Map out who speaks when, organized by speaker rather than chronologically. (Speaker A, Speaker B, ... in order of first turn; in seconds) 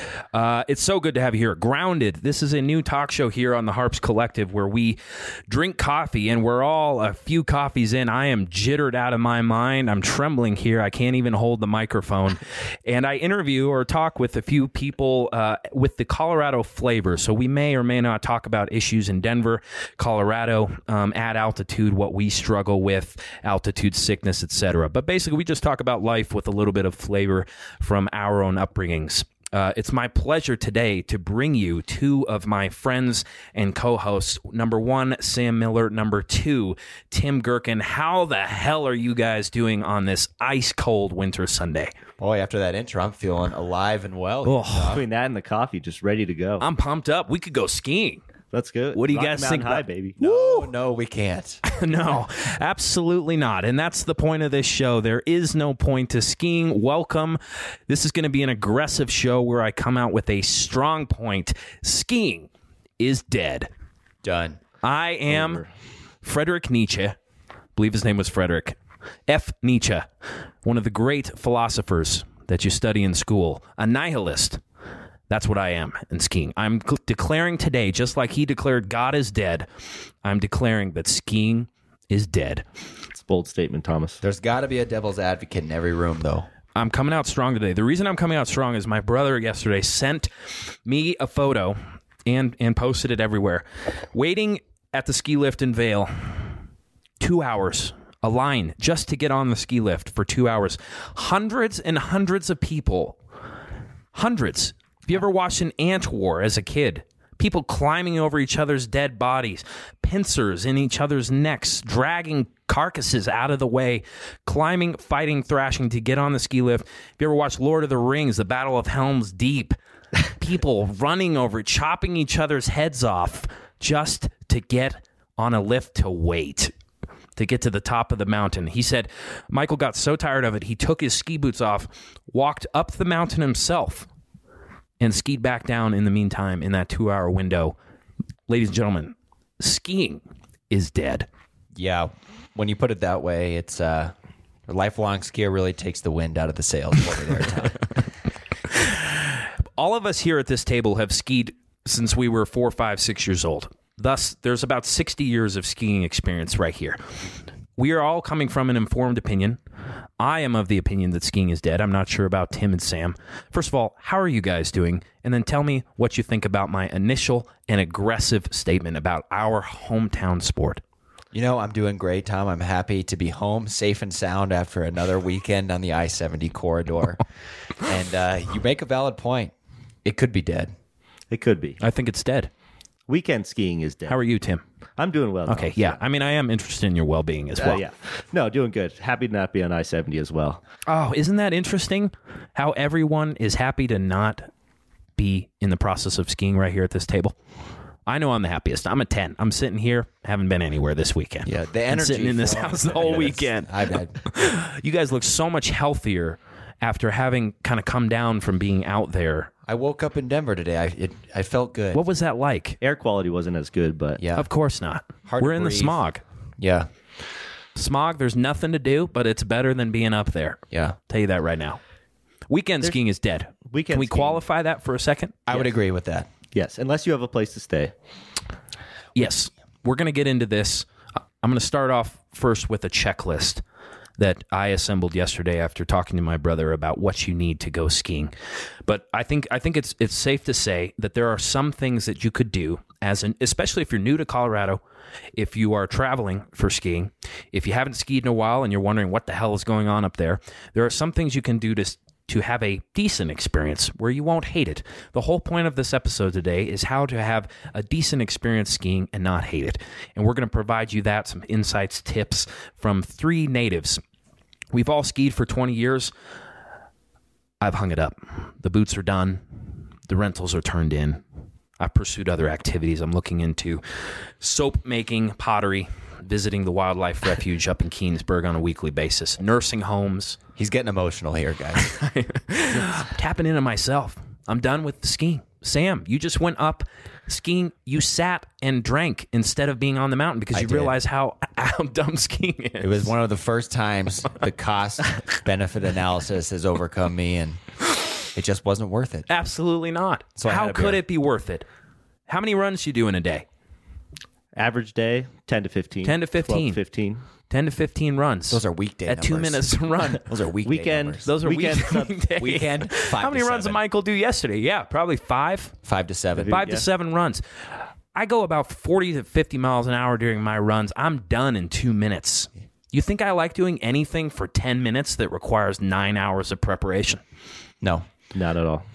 Speaker A: 0.3-41.9, 44.4-45.0, 46.6-48.2, 48.9-49.8, 51.6-63.7, 64.8-65.6, 66.2-67.2, 67.8-68.8, 69.3-70.1, 70.6-74.6, 75.3-79.7, 80.2-82.6, 86.8-90.3, 90.8-96.3, 97.2-103.2, 104.1-119.8, 120.3-126.7, 127.3-134.1, 135.0-137.8, 138.5-141.3, 148.7-157.0, 157.8-159.6, 160.2-170.8, 181.8-182.5, 184.1-184.6, 185.5-187.8, 190.9-194.5, 195.2-197.3, 198.1-209.5, 211.9-212.8, 214.3-216.2, 217.7-221.8, 222.5-225.4, 229.1-230.9, 231.4-233.6, 234.2-238.3, 238.8-244.8, 245.3-264.0, 264.7-266.1, 267.6-269.4, 270.1-271.2, 271.8-273.8, 274.4-280.4, 281.8-293.1, 299.3-301.6, 302.3-303.4, 306.0-306.8, 307.5-310.2, 311.2-315.7, 316.4-317.4, 318.1-327.2
Speaker B: 42.2-45.0, 50.2-51.6, 64.2-64.6, 84.2-86.5, 141.7-144.1, 144.7-147.8, 171.3-177.2, 177.8-179.5, 180.0-180.7, 201.4-204.2, 209.7-212.0, 214.2-214.5, 215.2-216.0, 216.6-216.9, 225.5-226.3, 280.6-281.8, 290.5-291.0, 292.8-297.6, 298.2-299.3, 300.4-301.0, 308.5-311.3, 312.4-313.8, 315.8-316.6, 327.8-328.1
Speaker C: 44.9-46.6, 48.5-50.6, 65.3-65.7, 83.2-84.2, 181.3-181.8, 183.1-184.2, 185.0-185.9, 187.6-190.6, 212.8-214.2, 223.7-224.4, 226.5-227.9, 304.5-307.2, 310.6-312.2, 316.4-316.9, 328.3-328.9